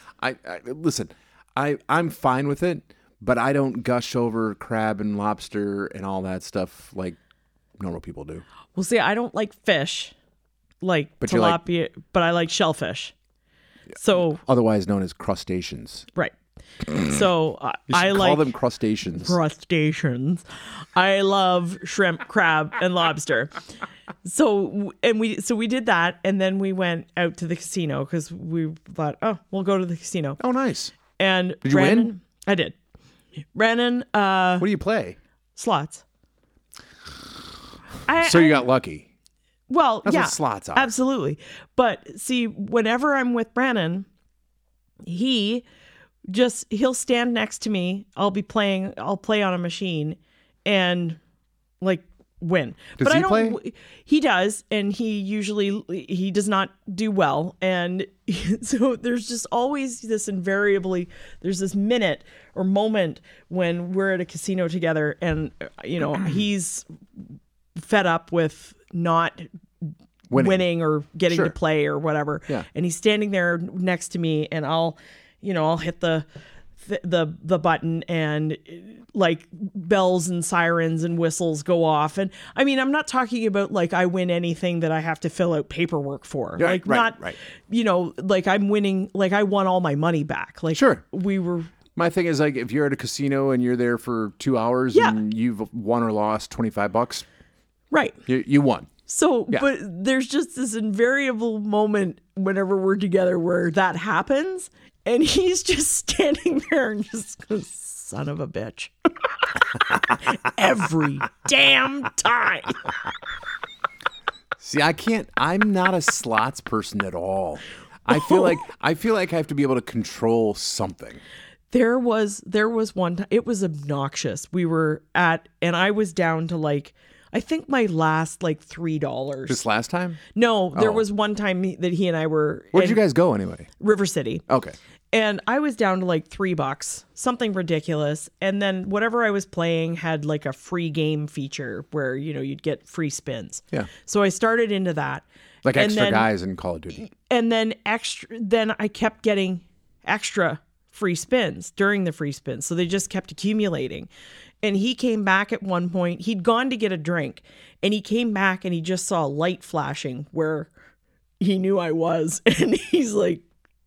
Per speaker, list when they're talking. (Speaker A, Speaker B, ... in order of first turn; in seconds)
Speaker A: 0.2-7.2, 7.8-8.4, 11.2-11.6, 14.1-16.1, 17.9-19.4, 30.4-30.9, 31.6-32.1, 34.6-35.2, 38.2-39.1, 40.0-40.9, 53.0-53.6, 70.3-70.7, 86.6-87.4, 90.7-91.0, 91.9-97.2, 98.2-98.9, 114.6-121.2, 129.5-130.2, 130.7-131.0, 132.7-133.7, 134.5-134.8, 145.6-147.0
Speaker B: 8.7-10.1, 10.8-13.1, 13.9-14.4, 16.9-18.5, 19.1-20.4, 20.9-23.5, 24.2-30.4, 31.1-32.8, 33.5-34.6, 35.5-36.0, 38.0-38.6, 39.7-44.1, 45.0-45.6, 46.3-51.2, 51.8-76.3, 76.8-91.7, 97.9-98.2, 99.1-108.9, 109.5-112.9, 121.7-129.6, 130.3-133.0, 133.8-134.4, 135.1-146.3, 147.0-154.1, 154.6-160.7, 161.4-163.4